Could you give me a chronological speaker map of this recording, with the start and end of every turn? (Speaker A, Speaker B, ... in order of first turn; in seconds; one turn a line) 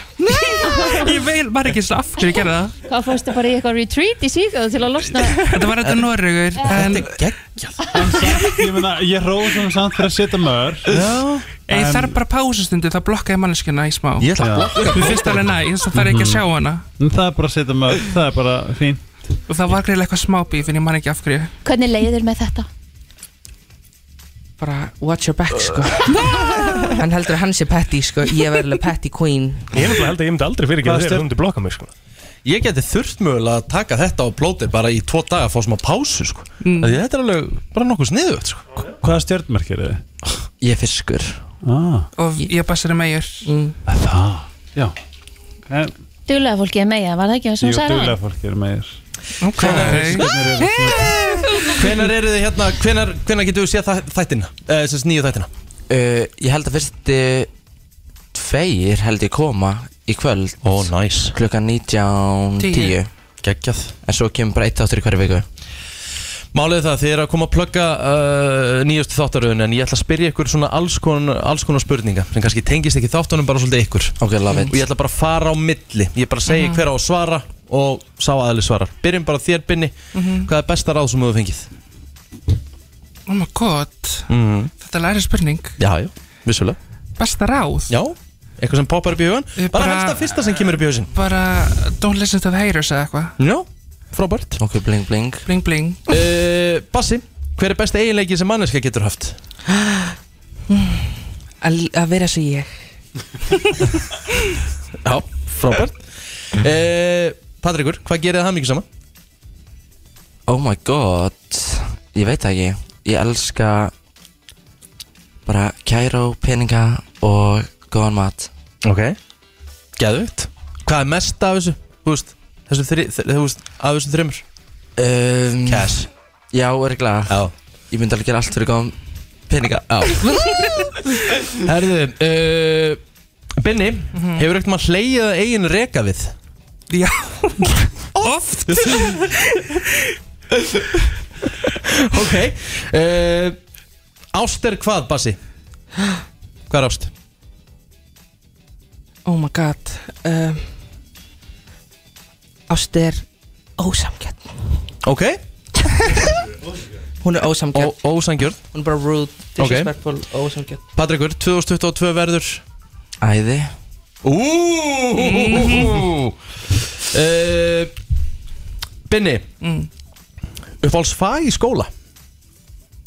Speaker A: 0.3-2.7
Speaker B: 2.9-5.5
Speaker A: 5.5-7.2
Speaker C: 6.7-7.8
Speaker D: 7.9-11.1
Speaker C: 10.9-11.4
Speaker A: 11.6-16.8
Speaker D: 11.7-12.2
Speaker C: 14.2-15.6
Speaker D: 14.4-15.0
Speaker D: 15.9-16.4
Speaker D: 17.0-19.0
Speaker A: 19.5-21.5
Speaker B: 21.6-22.7
Speaker E: 24.6-29.7
Speaker F: 29.7-31.9
Speaker D: 30.8-31.3
Speaker C: 32.4-38.6
Speaker A: 36.6-37.0
Speaker D: 39.0-40.0
Speaker G: 40.6-41.4
Speaker D: 41.6-42.1
Speaker A: 42.1-43.5
Speaker E: 43.5-43.8
Speaker D: 43.9-44.9
Speaker D: 45.6-45.9
Speaker B: 46.3-48.2
Speaker D: 47.6-49.0
Speaker A: 49.4-52.0
Speaker C: 49.6-50.0
Speaker D: 49.6-51.4
Speaker C: 51.7-55.5
Speaker G: 55.9-57.5
Speaker G: 58.3-63.1
Speaker C: 60.6-61.3
Speaker A: 62.6-62.9
Speaker C: 63.4-63.9
Speaker G: 64.0-65.5
Speaker C: 66.5-81.7
Speaker G: 74.2-74.8
Speaker A: 76.5-76.8
Speaker A: 80.1-80.5
Speaker A: 83.2-85.8
Speaker C: 84.3-84.7
Speaker C: 85.8-86.8
Speaker A: 87.2-87.9
Speaker C: 87.9-91.1
Speaker A: 89.6-93.4
Speaker C: 93.4-94.6
Speaker G: 94.6-95.4
Speaker A: 95.5-96.0
Speaker C: 96.1-99.4
Speaker E: 99.7-100.1
Speaker E: 100.7-102.8
Speaker C: 105.0-108.8
Speaker G: 110.5-113.9
Speaker G: 115.5-118.5
Speaker C: 118.8-119.2
Speaker C: 120.0-124.4
Speaker G: 125.0-126.0
Speaker C: 125.7-126.1
Speaker G: 126.5-128.9
Speaker C: 127.3-127.5
Speaker G: 129.5-130.4
Speaker C: 129.7-130.4
Speaker C: 131.6-133.0
Speaker C: 133.6-136.3
Speaker A: 134.2-134.4
Speaker A: 136.9-139.6
Speaker C: 142.0-143.6
Speaker C: 144.3-145.4
Speaker C: 146.7-147.1
Speaker E: 149.2-150.7
Speaker E: 152.7-153.2
Speaker E: 153.8-154.6
Speaker C: 155.0-155.4
Speaker E: 157.2-158.0
Speaker C: 157.7-158.6
Speaker E: 158.7-160.8
Speaker C: 159.6-159.9
Speaker C: 160.9-162.6
Speaker G: 163.2-163.7
Speaker C: 164.2-166.4
Speaker A: 165.3-166.0
Speaker C: 167.0-167.9
Speaker C: 169.1-169.5
Speaker A: 169.6-169.9
Speaker C: 170.8-171.9